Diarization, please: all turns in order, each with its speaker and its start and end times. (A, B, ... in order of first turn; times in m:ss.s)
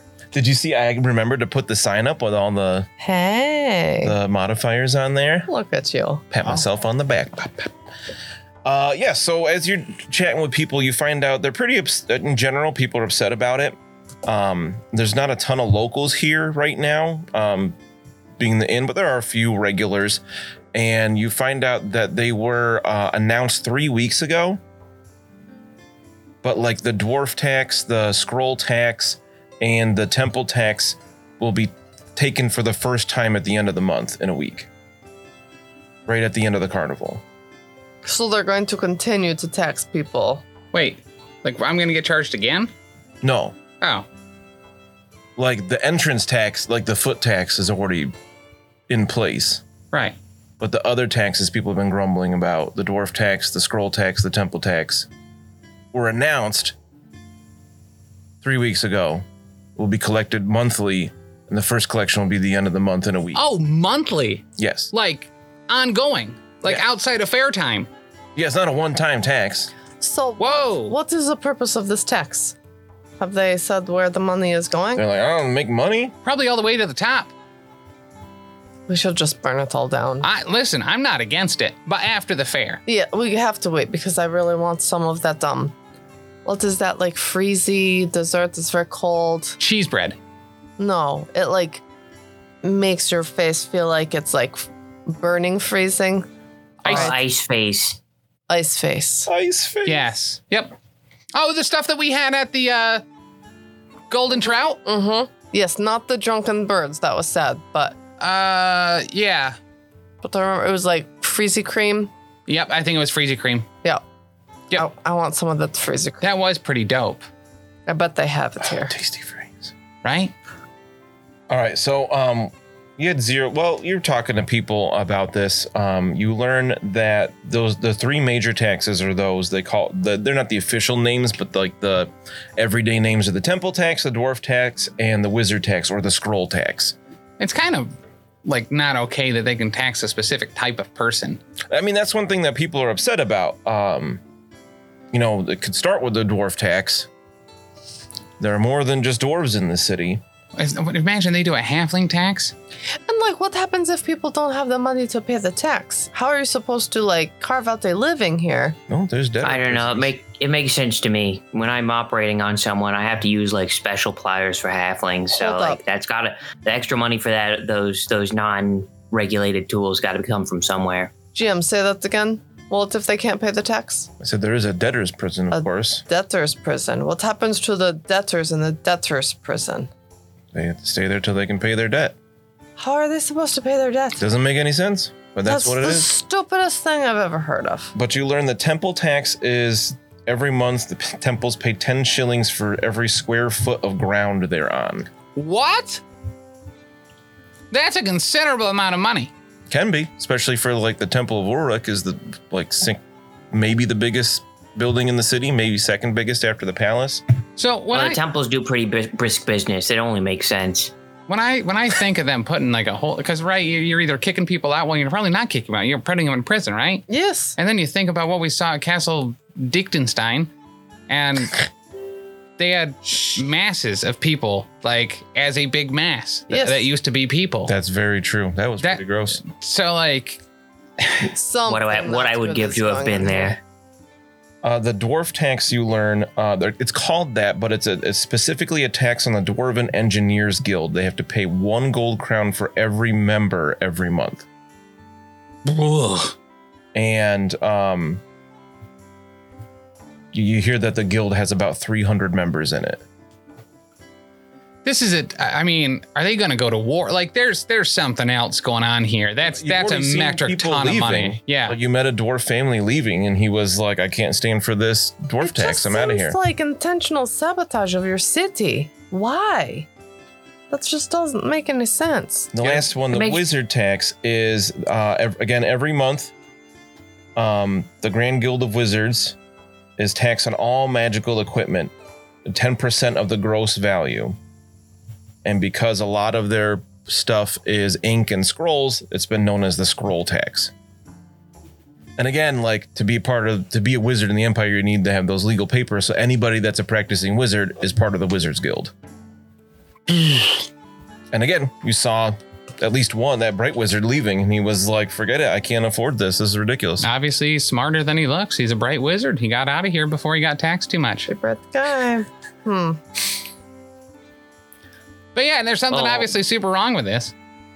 0:00.3-0:02.9 A
0:03.0-0:04.1 B
0:04.0-0:05.5 A
0:05.5-0:06.3 B
0:06.3-0:07.7 A
0:08.6-0:17.8 A
0:18.4-0:20.2 A
0:20.7-0:24.6 A
0:26.4-0:34.7 A
0:36.1-0:37.2 A
0:38.0-0:40.4 B
0:40.7-0:42.7 C
0:43.2-0:43.6 A
0:45.4-0:48.1 A
0:48.9-0:49.6 A
0:50.6-0:55.1 A
0:55.9-0:56.8 A
0:58.4-0:59.2 A
0:59.8-1:03.4 A
1:03.4-1:07.9 C
1:04.6-1:04.9 A
1:08.4-1:09.7 A
1:10.0-1:12.6 B
1:10.4-1:11.0 C
1:13.2-1:15.0 B
1:15.0-1:16.1 A
1:16.2-1:17.3 C
1:18.9-1:20.3 B
1:20.2-1:22.8 C
1:22.9-1:25.7 B
1:26.4-1:29.6 B
1:29.6-1:30.2 C
1:30.8-1:31.8 B
1:32.6-1:36.3 B
1:36.8-1:37.1 C
1:36.8-1:37.2 B
1:36.9-1:38.0 D
1:38.5-1:39.3 B
1:39.3-1:40.1 A
1:39.9-1:40.8 C
1:41.3-1:43.0 C
1:44.1-1:44.8 C
1:44.8-1:48.0 B
1:48.2-1:49.6 C
1:50.2-1:52.1 B
1:52.5-1:53.7 C
1:54.7-1:56.3 B
1:56.2-1:57.3 C
1:57.9-1:58.9 B
1:58.6-1:59.7 A
2:00.0-2:00.3 C
2:01.5-2:17.0 A
2:17.4-2:17.9 C
2:18.4-2:21.4 C
2:21.7-2:24.2 A
2:25.1-2:27.1 A
2:28.4-2:30.2 A
2:30.6-2:32.5 C
2:33.1-2:38.8 B
2:38.9-2:40.1 A
2:39.4-2:51.1 D
2:45.4-2:45.8 B
2:51.4-2:54.1 B
2:54.2-2:56.0 A
2:55.5-2:59.9 B
3:00.5-3:02.2 A
3:02.8-3:04.2 B
3:04.2-3:06.1 A
3:05.5-3:07.9 B
3:08.0-3:15.1 A
3:15.4-3:16.0 C
3:17.7-3:19.3 C
3:19.7-3:23.0 A
3:23.5-3:27.2 A
3:27.6-3:28.2 C
3:27.9-3:30.9 D
3:31.3-3:40.5 C
3:37.1-3:37.6 B
3:41.1-3:41.7 C
3:42.6-3:47.7 C
3:46.5-3:46.8 B
3:47.7-3:49.4 A
3:48.8-3:50.4 C
3:51.0-3:51.3 C
3:51.3-3:53.6 B
3:51.7-3:53.6 D
3:54.6-4:04.5 A
4:05.6-4:06.3 C
4:06.9-4:08.2 A
4:10.3-4:13.0 A
4:14.8-4:21.8 C
4:19.4-4:26.4 A
4:25.4-4:29.9 B
4:30.7-4:32.5 B
4:32.5-4:36.3 A
4:32.7-4:33.5 D
4:37.4-4:39.4 A
4:40.0-4:41.9 A
4:42.4-4:44.4 A
4:45.4-4:50.7 A
4:52.2-4:58.9 A
5:01.3-5:07.1 A
5:07.0-5:11.3 C
5:11.3-5:13.0 B
5:15.4-5:17.3 C
5:15.9-5:16.3 D